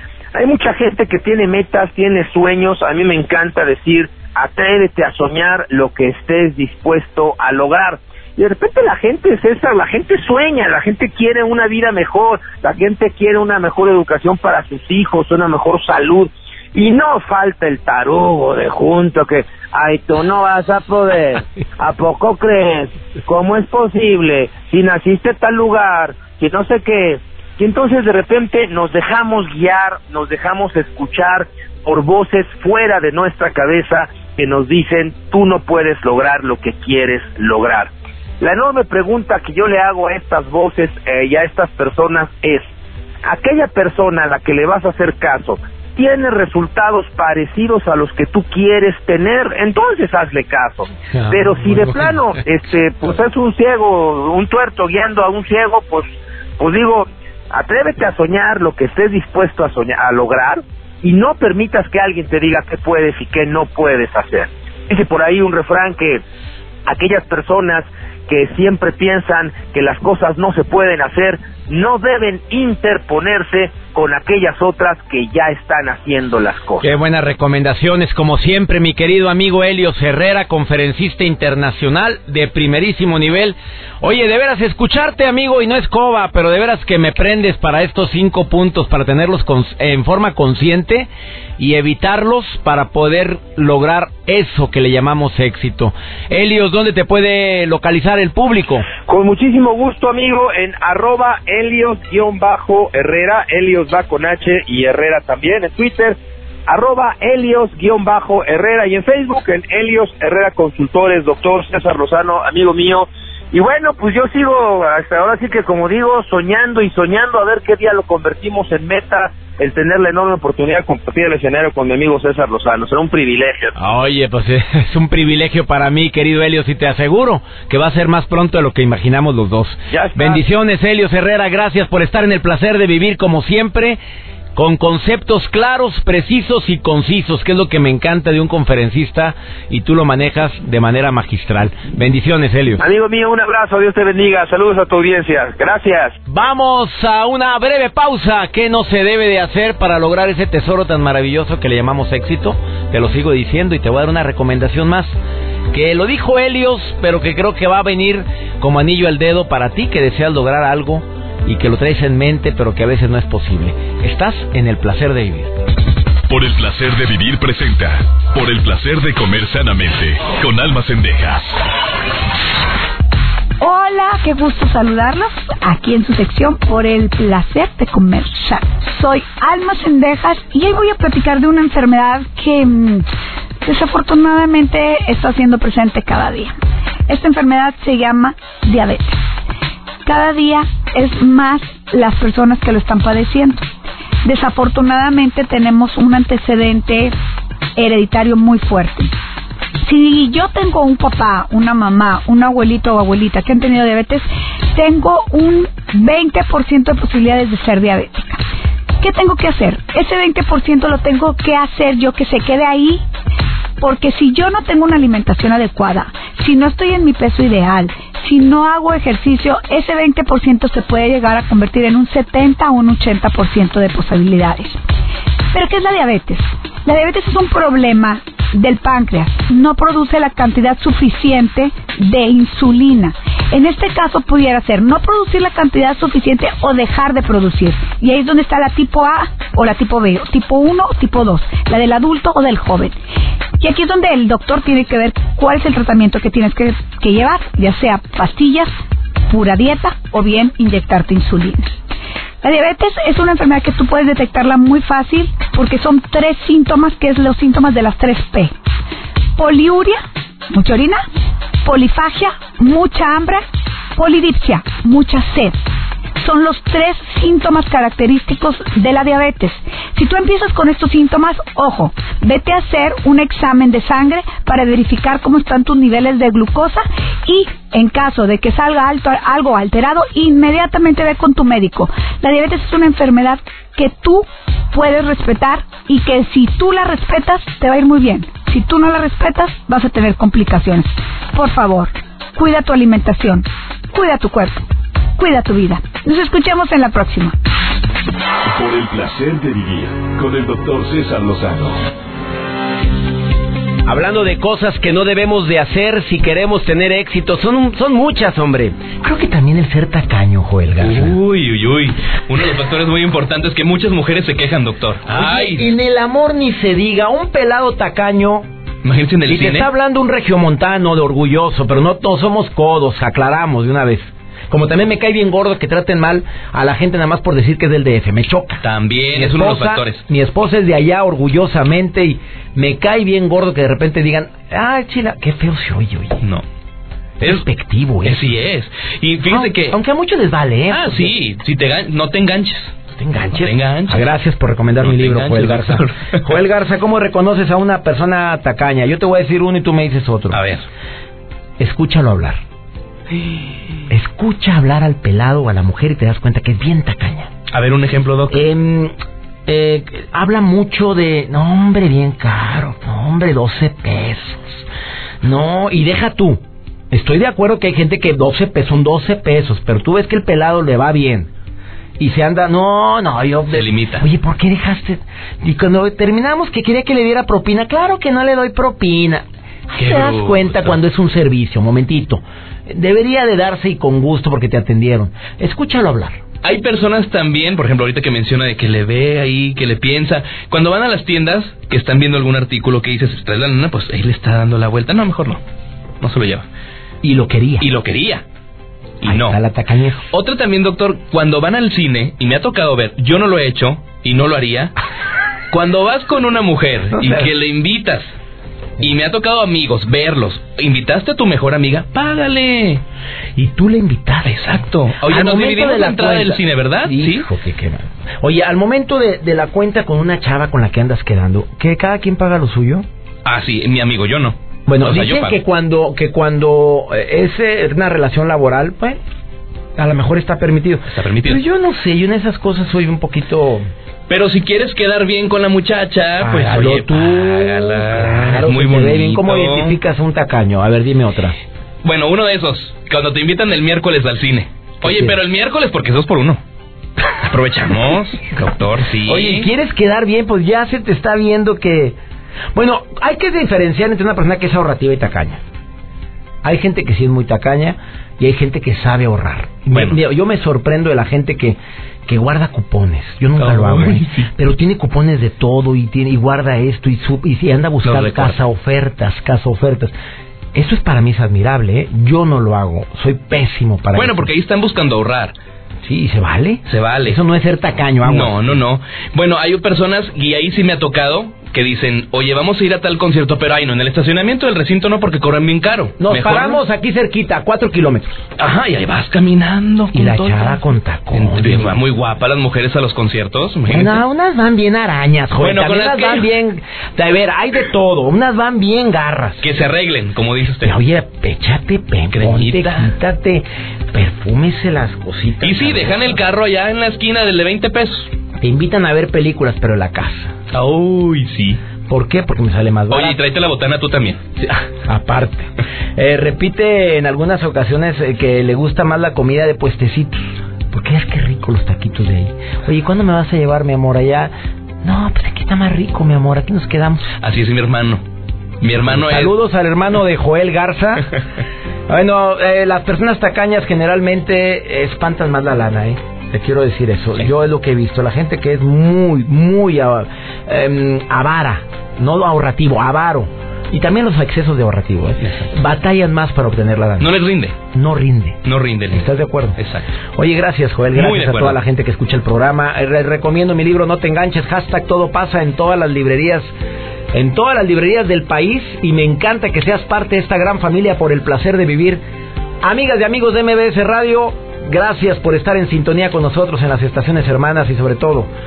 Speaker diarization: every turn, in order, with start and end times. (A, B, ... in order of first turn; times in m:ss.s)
0:00.3-0:42.7 A
0:43.2-1:06.2 A
0:51.1-0:52.2 B
1:06.8-1:16.9 A
1:16.8-1:38.9 B
1:39.0-2:03.7 A
2:03.8-2:14.0 B
2:09.9-2:10.4 A
2:14.6-2:22.8 B
2:22.8-2:26.2 A
2:26.3-2:35.2 B
2:35.7-2:45.5 B
2:46.3-2:51.6 C
2:53.6-3:03.1 D
3:03.6-3:06.6 D
3:07.1-3:09.2 D
3:10.0-3:13.7 D
3:14.2-3:17.1 D
3:17.8-3:19.1 D
3:19.9-3:28.4 D
3:29.0-3:33.0 D
3:33.8-3:44.8 D
3:45.5-4:03.0 D
4:03.6-4:08.7 D
4:09.3-4:11.7 D
4:12.4-4:18.5 D
4:19.4-4:21.0 D
4:21.6-4:23.4 D
4:24.0-4:25.6 D
4:26.2-4:54.6 D
4:55.2-4:57.4 D
4:58.4-5:01.8 C
5:03.9-5:11.2 B
5:10.8-5:15.7 E
5:15.1-5:18.5 B
5:18.8-5:19.7 E
5:19.3-5:28.6 B
5:28.6-5:30.0 E
5:29.1-5:36.2 B
5:37.2-5:38.3 B
5:38.0-5:39.8 E
5:39.3-5:41.1 B
5:40.7-5:42.8 E
5:42.9-5:50.4 B
5:43.3-5:44.1 E
5:44.8-5:46.2 E
5:50.3-5:50.7 E
5:51.6-5:52.4 B
5:53.9-5:57.3 B
5:57.5-5:58.4 E
5:58.3-5:58.9 B
5:59.5-6:04.7 B
6:05.2-6:11.3 B
6:12.0-6:26.2 B
6:13.5-6:14.1 E
6:19.8-6:20.8 E
6:26.4-6:35.4 E
6:36.0-6:36.5 E
6:37.0-6:37.7 B
6:37.6-6:38.2 E
6:39.0-6:39.4 E
6:39.0-6:40.1 B
6:40.1-6:44.7 E
6:45.5-6:48.2 E
6:48.8-6:52.8 E
6:53.4-6:54.4 B
6:54.3-6:57.3 E
6:55.0-7:02.8 B
7:03.2-7:05.4 E
7:04.7-7:09.0 B
7:09.8-7:13.7 B
7:10.9-7:11.4 E
7:14.1-7:19.8 E
7:16.2-7:21.4 B
7:21.8-7:26.4 E
7:24.8-7:25.2 B
7:27.2-7:29.5 E
7:29.1-7:32.0 B
7:32.5-7:35.4 B
7:36.4-7:49.9 B
7:39.7-7:40.0 E
7:43.4-7:44.3 E
7:47.8-7:48.4 E
7:50.5-7:54.3 B
7:53.9-7:55.4 E
7:55.8-7:58.6 B
7:56.7-7:57.2 E
7:58.0-8:06.6 E
8:06.0-8:08.2 B
8:08.4-8:10.6 E
8:09.9-8:11.8 B
8:11.1-8:14.0 E
8:13.7-8:19.4 B
8:15.4-8:16.3 E
8:19.4-8:20.8 E
8:20.6-8:26.2 B
8:22.1-8:22.9 E
8:25.4-8:28.1 E
8:28.4-8:30.4 B
8:30.5-8:31.6 E
8:31.9-8:33.2 B
8:32.9-8:34.3 E
8:34.8-8:44.3 B
8:44.8-8:47.1 B
8:47.2-8:48.0 E
8:48.6-8:49.3 E
8:48.9-8:51.1 B
8:51.9-9:09.6 B
9:07.0-9:07.6 E
9:08.4-9:09.1 E
9:09.6-9:09.9 E
9:10.2-9:16.5 B
9:10.9-9:11.6 E
9:17.1-9:22.0 B
9:22.6-9:28.3 B